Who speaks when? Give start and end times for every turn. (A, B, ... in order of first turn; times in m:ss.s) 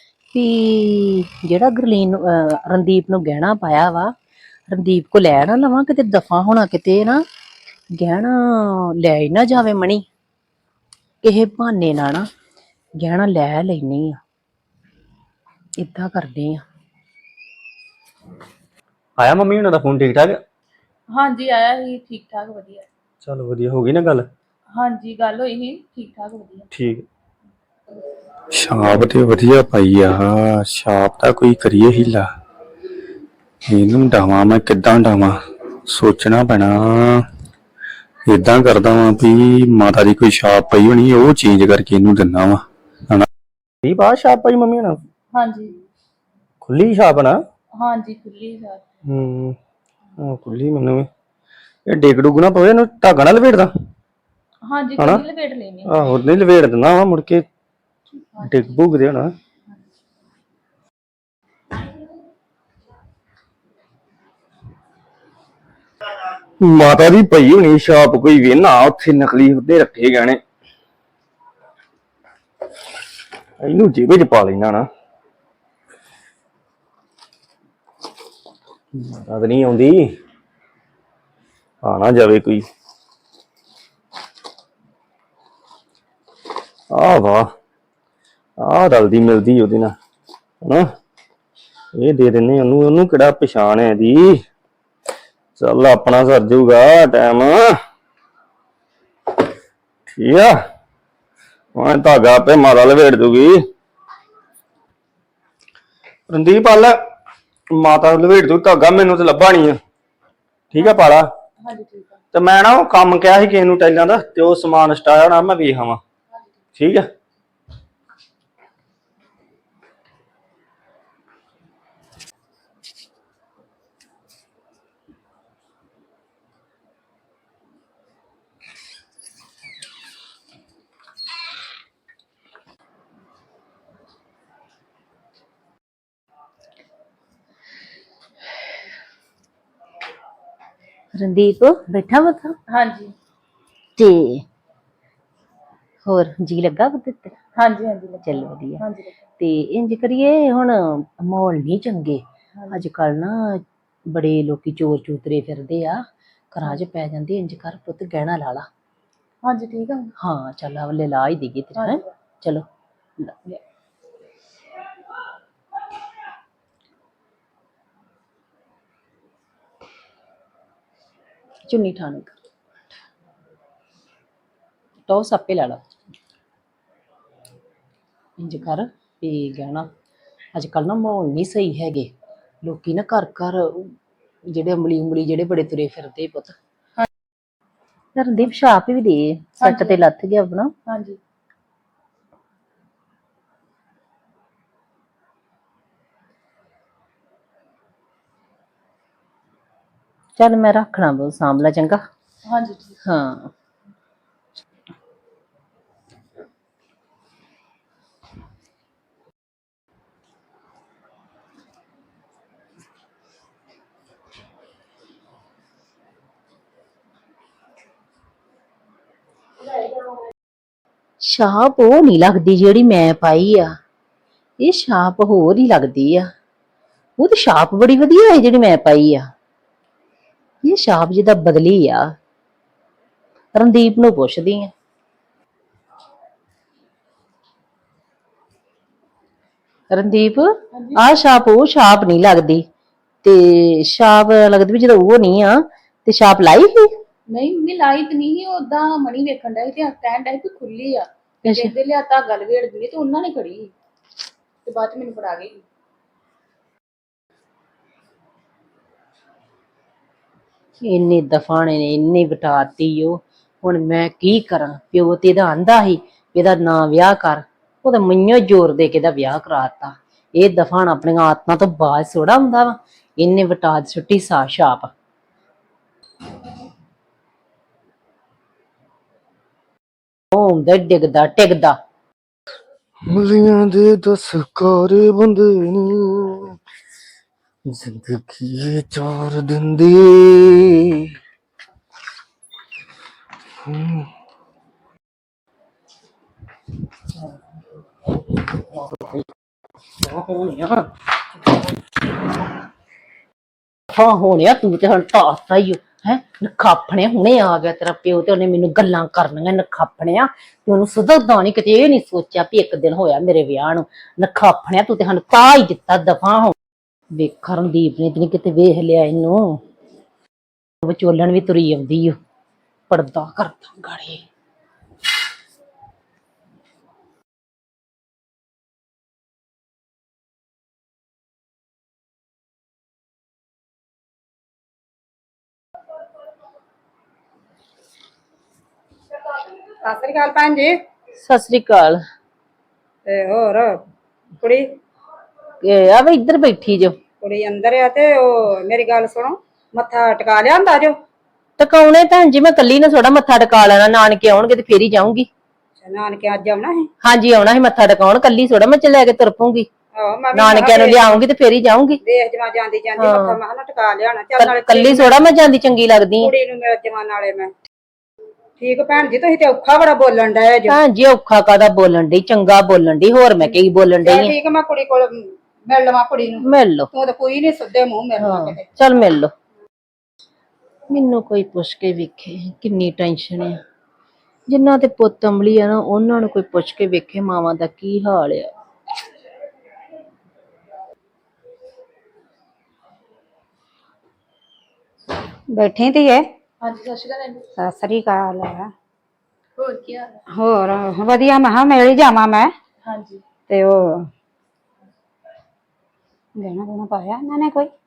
0:00.3-0:04.1 A
0:04.7-0:07.2 A
0:08.0-0:10.0 A
0:11.2-0:12.2 A
0:13.0-0:14.2 A
0:15.8-0:16.6 A
0:19.2-0:20.4 B
0:21.1-0:22.8 C
0:23.2-0:24.3 B
0:24.7-0:26.7 C
0:26.7-0:27.0 B
0:28.5-0:32.3 D
0:33.7-0:37.2 D
0:38.3-0:43.2 D
0:43.8-0:45.0 B
0:45.3-0:45.7 C
0:46.6-0:47.4 B
0:47.8-0:48.8 C
0:49.0-0:49.6 B
0:50.2-0:51.1 B
0:51.9-0:53.7 B
0:54.6-0:56.1 C
0:55.0-0:55.2 B
0:55.8-0:57.5 B
0:58.4-0:58.8 C
0:58.4-0:59.3 B
1:06.6-1:10.4 B
1:13.6-1:14.9 B
1:19.0-1:20.1 B
1:21.8-1:22.6 B
1:26.9-1:27.5 B
1:28.6-1:30.0 B
1:31.9-1:34.4 B
1:35.6-1:37.7 B
1:40.1-1:40.6 B
1:41.7-1:43.6 B
1:46.3-1:47.0 B
1:47.7-1:49.8 B
1:50.7-1:51.3 B
1:50.7-1:51.0 C
1:51.6-1:52.2 C
1:52.3-1:56.0 B
1:56.8-1:57.1 B
2:21.1-2:22.6 A
2:22.7-2:23.1 C
2:24.0-2:24.4 A
2:26.0-2:27.3 A
2:27.6-2:29.1 C
2:28.2-2:28.8 A
2:29.4-2:38.7 A
2:32.5-2:32.8 C
2:39.4-2:40.1 C
2:40.2-2:42.6 A
2:41.8-2:42.1 C
2:43.2-2:43.6 A
2:51.7-2:52.4 A
2:55.1-2:55.8 A
2:58.4-2:59.9 A
3:00.5-3:02.1 A
3:02.6-3:03.9 A
3:04.5-3:06.6 A
3:08.1-3:10.7 A
3:09.6-3:10.0 C
3:10.9-3:11.2 C
3:20.4-3:22.0 A
3:22.5-3:23.0 C
3:23.0-3:23.5 A
3:41.2-3:43.7 A
3:44.6-3:46.3 A
3:47.2-3:49.3 A
3:50.6-3:52.1 A
3:53.5-3:54.7 A
3:59.9-4:02.6 A
4:00.7-4:01.0 C
4:03.2-4:06.9 A
4:07.3-4:13.7 C
4:11.4-4:11.7 A
4:14.6-4:15.6 C
4:20.8-4:34.9 A
4:40.3-4:41.8 A
4:43.1-4:46.5 B
4:47.7-4:51.0 B
4:53.6-4:54.1 B
4:58.6-4:59.3 A
5:00.0-5:00.9 A
5:03.9-5:16.5 A
5:17.1-5:19.6 A
5:20.8-5:22.2 A
5:22.9-5:24.2 A
5:39.3-5:40.8 E
5:41.1-5:42.0 A
5:43.0-5:43.8 E
5:44.4-5:44.7 E
5:45.6-5:47.0 A
5:47.2-5:51.0 E
5:51.6-5:55.3 A
5:55.8-5:56.9 E
5:57.0-5:59.7 A
5:59.9-6:01.1 E
6:00.3-6:02.0 A
6:02.0-6:05.2 E
6:03.0-6:03.4 A
6:04.4-6:06.3 A
6:06.2-6:07.5 E
6:08.6-6:10.8 E
6:10.7-6:14.3 A
6:14.0-6:18.6 E
6:16.4-6:16.9 A
6:18.2-6:19.3 A
6:20.9-6:23.6 A
6:24.5-6:28.5 A
6:35.5-6:36.2 E
6:36.6-6:37.4 C
6:37.6-6:38.7 E
6:39.6-6:40.2 C
6:40.3-6:42.5 E
6:42.8-6:43.2 C
6:43.5-6:44.1 E
6:46.4-6:47.7 E